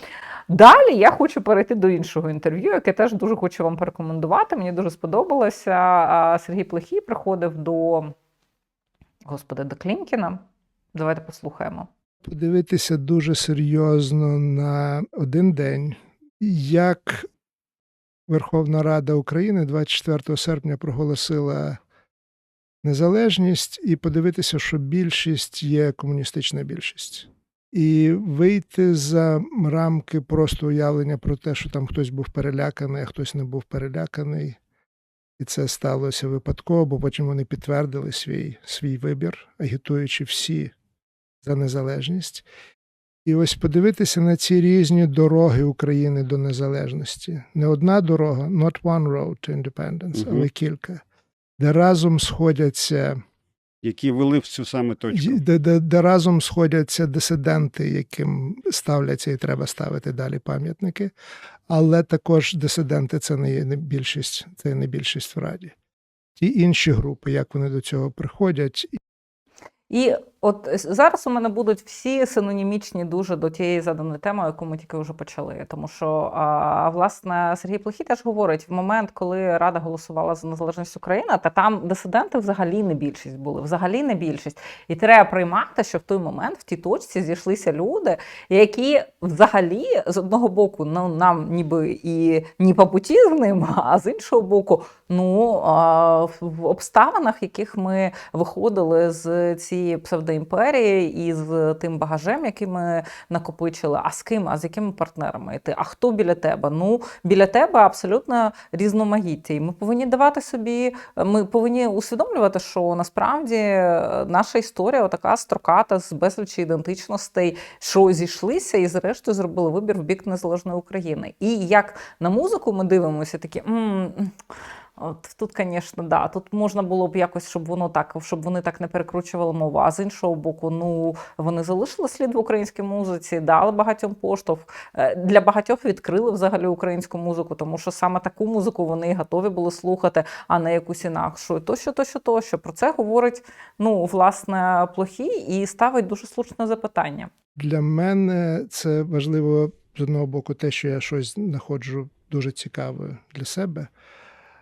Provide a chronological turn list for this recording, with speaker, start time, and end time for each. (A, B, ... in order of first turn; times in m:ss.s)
0:00.5-0:08.1 A
0:09.2-0:10.4 A
0:10.9-0:11.9 A
0:12.2-0:17.3 B
0:18.3-0:21.8 B
0:22.8-0:34.6 B
0:35.4-0:40.7 B
0:41.4-0:42.4 B
0:43.2-0:51.0 B
0:50.2-0:50.4 C
0:51.6-0:53.2 B
0:53.8-0:55.4 C
0:55.1-1:01.1 B
1:01.7-1:05.7 B
1:06.4-1:08.9 B
1:09.9-2:04.3 A
2:05.0-2:27.3 A
2:27.6-2:33.9 B